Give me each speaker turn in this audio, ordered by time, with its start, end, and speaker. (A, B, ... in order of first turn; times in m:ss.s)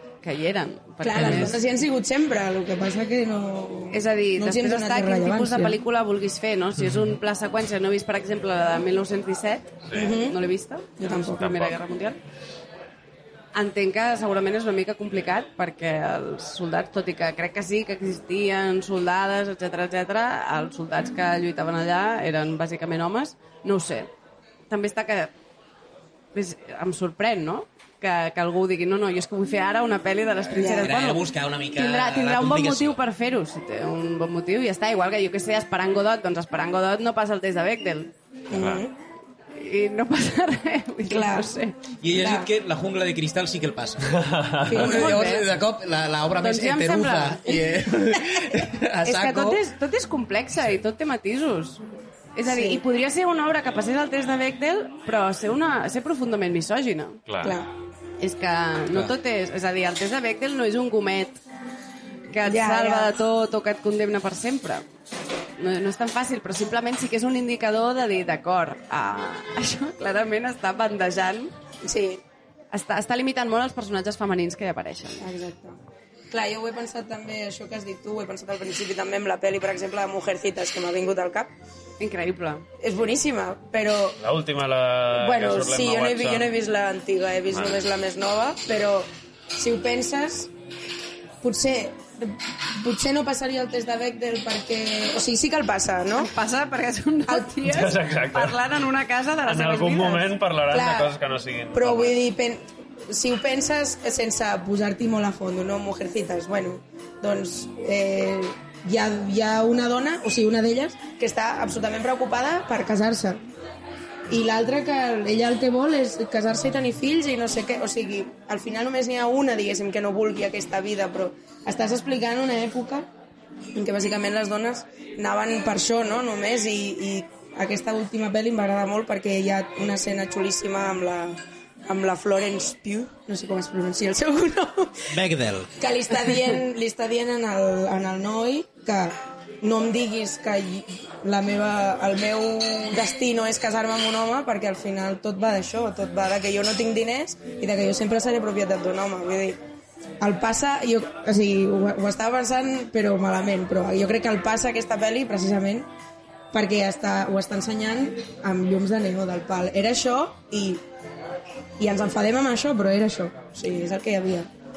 0:00.2-0:01.6 A
0:01.0-0:05.8 B
0:03.9-0:12.2 A
0:09.9-0:10.4 B
0:11.0-0:11.4 B
0:11.4-0:11.8 C
0:13.5-0:24.1 A
0:24.7-0:25.3 A
0:26.3-0:38.1 A
0:30.5-0:30.9 B
0:30.8-0:33.0 D
0:38.5-0:38.9 B
0:38.5-0:38.8 C
0:39.5-0:41.8 A
0:41.0-0:41.5 B
0:42.0-0:44.1 D
0:42.1-0:42.5 B
0:44.1-0:44.9 C
0:44.7-0:45.2 B
0:44.7-0:45.5 A
0:44.8-0:49.6 D
0:46.4-0:47.6 A
0:49.0-0:51.8 A
0:52.3-0:57.2 A
0:52.4-0:52.8 B
0:57.3-0:57.6 C
0:57.4-0:57.7 B
0:58.2-1:01.4 A
1:02.3-1:04.8 A
1:02.4-1:03.1 B
1:05.6-1:11.5 A
1:11.8-1:12.2 B
1:12.7-1:15.3 A
1:15.2-1:15.8 B
1:16.3-1:21.5 B
1:22.0-1:22.6 A
1:22.8-1:24.2 B
1:24.2-1:26.5 C
1:25.1-1:30.5 B
1:27.5-1:27.8 C
1:31.4-1:36.3 B
1:36.2-1:40.3 A
1:37.6-1:38.6 C
1:39.4-1:42.2 C
1:40.7-1:41.1 B
1:41.7-1:53.4 B
1:54.3-2:03.1 B
2:03.7-2:15.2 B
2:15.1-2:15.7 D
2:15.8-2:29.6 B
2:30.2-2:35.9 B
2:36.5-2:40.8 B
2:41.8-2:44.5 B